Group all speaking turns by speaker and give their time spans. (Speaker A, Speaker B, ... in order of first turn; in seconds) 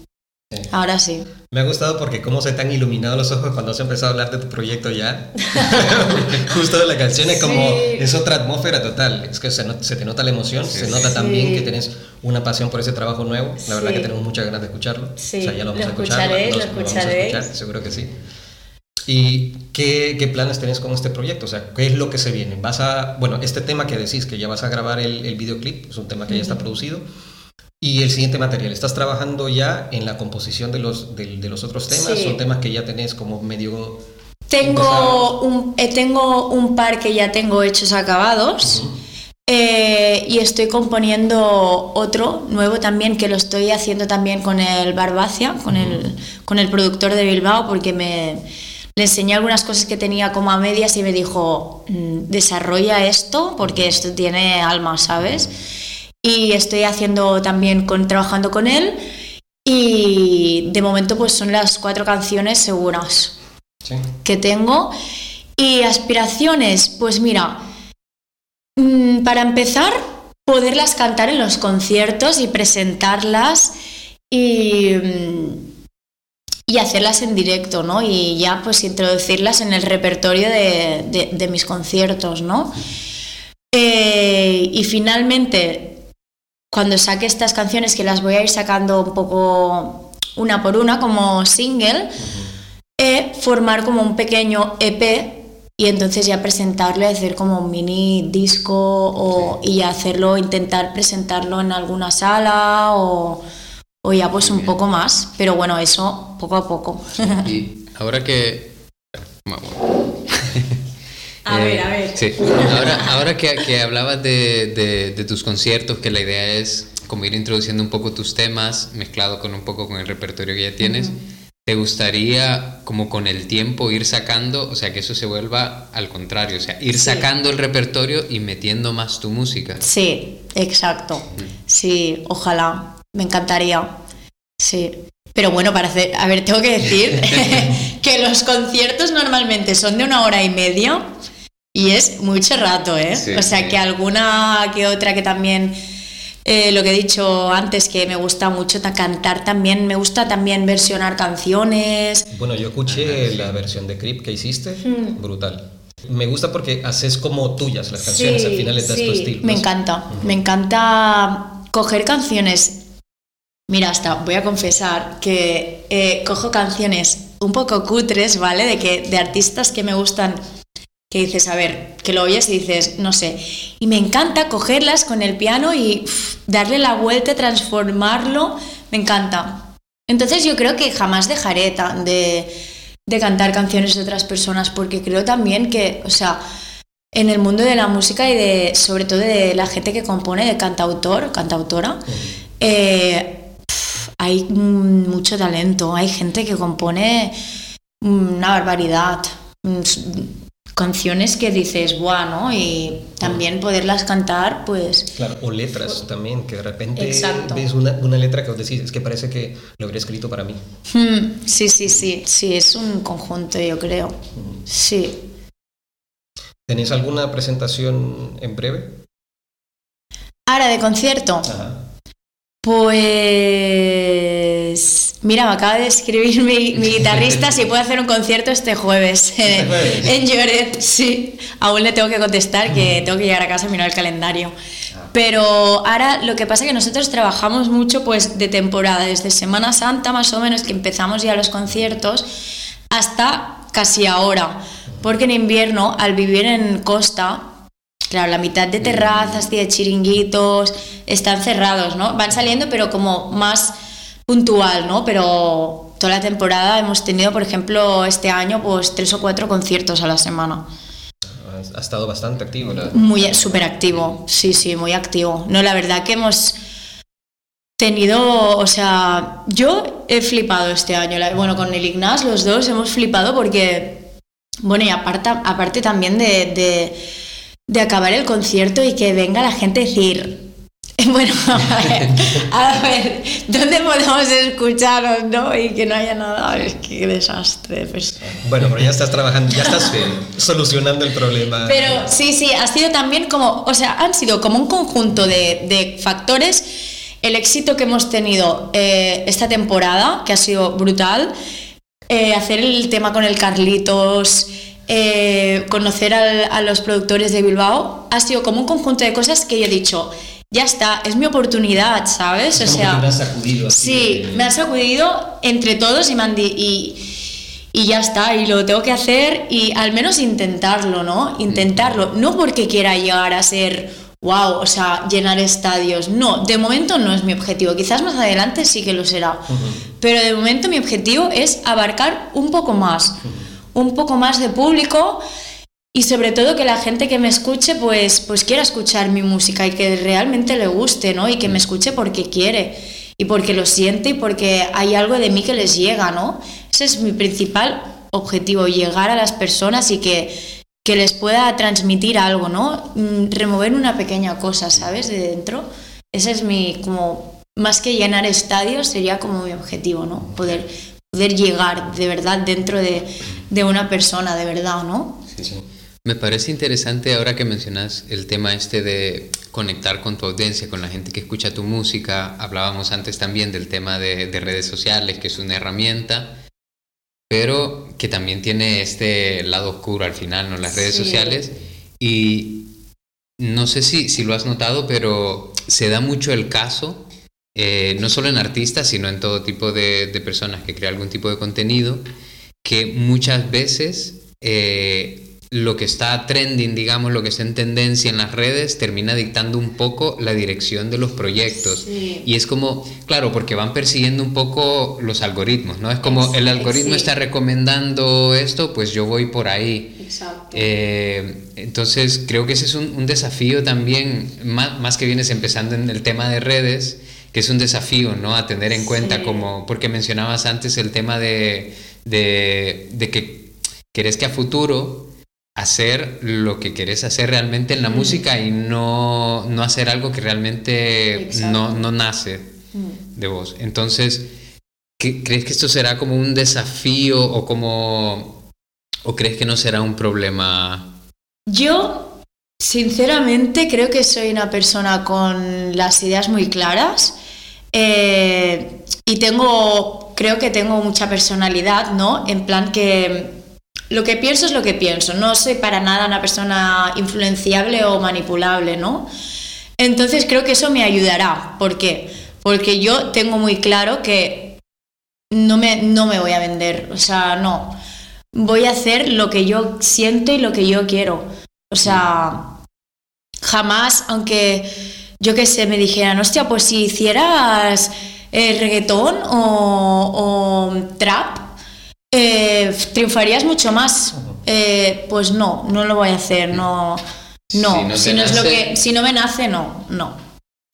Speaker A: 0.7-1.3, 5.4-6.0, 7.2-8.1, 10.9-11.7, 13.6-14.1, 15.2-17.5, 26.3-26.6, 31.9-32.4, 34.5-38.8, 39.5-48.4, 49.0-55.5, 56.2-59.0, 59.6-63.3, 64.2-64.9, 65.6-67.6, 68.8-73.7, 74.3-75.6, 76.7-82.7, 83.7-86.0, 86.7-92.2, 93.0-103.4, 104.0-107.5, 111.4-113.1, 120.8-121.1, 126.9-127.3, 129.8-133.9, 134.6-141.1, 141.7-145.8, 146.4-152.3, 154.8-155.2, 158.0-162.8, 163.7-170.4, 171.1-182.5, 183.1-186.4, 187.1-192.0, 192.6-197.3, 198.0-205.1, 206.9-207.7, 210.9-214.2, 214.7-215.2, 220.5-221.5, 222.6-234.5, 235.1-242.3, 242.9-247.5, 248.1-253.7, 254.3-260.6, 262.9-266.6, 267.8-274.1, 274.6-277.0, 277.7-280.4, 281.0-288.4, 289.6-289.9, 291.6-301.3, 302.1-313.0, 313.7-317.1, 317.7-333.2, 333.7-335.2, 335.9-365.2, 380.7-381.4, 401.6-402.3, 406.0-407.1, 410.0-410.7, 418.8-419.5, 427.8-428.2, 431.1-431.8, 441.5-447.1, 447.7-453.3, 453.9-459.1, 459.8-464.6, 465.3-467.8, 468.3-472.5, 473.4-481.5, 482.1-487.0, 487.5-490.2
Speaker B: 1.5-18.1, 19.1-27.0, 27.8-34.0, 34.6-35.3, 38.6-38.9, 45.7-46.0, 92.2-92.5, 152.3-160.3, 205.2-210.6, 216.7-219.0, 221.4-221.8, 229.5-230.1, 261.3-263.7, 288.4-292.1, 312.5-314.5, 329.5-329.8
Speaker C: 10.7-11.0, 104.4-104.7, 107.3-108.7, 109.4-110.7, 111.5-121.1, 121.7-129.8, 143.1-143.8, 152.9-153.5, 366.0-376.3, 377.3-382.6, 383.4-392.0, 392.6-410.0, 410.5-425.0, 425.6-432.5, 433.1-434.3, 435.0-438.4, 439.0-440.9, 487.5-488.7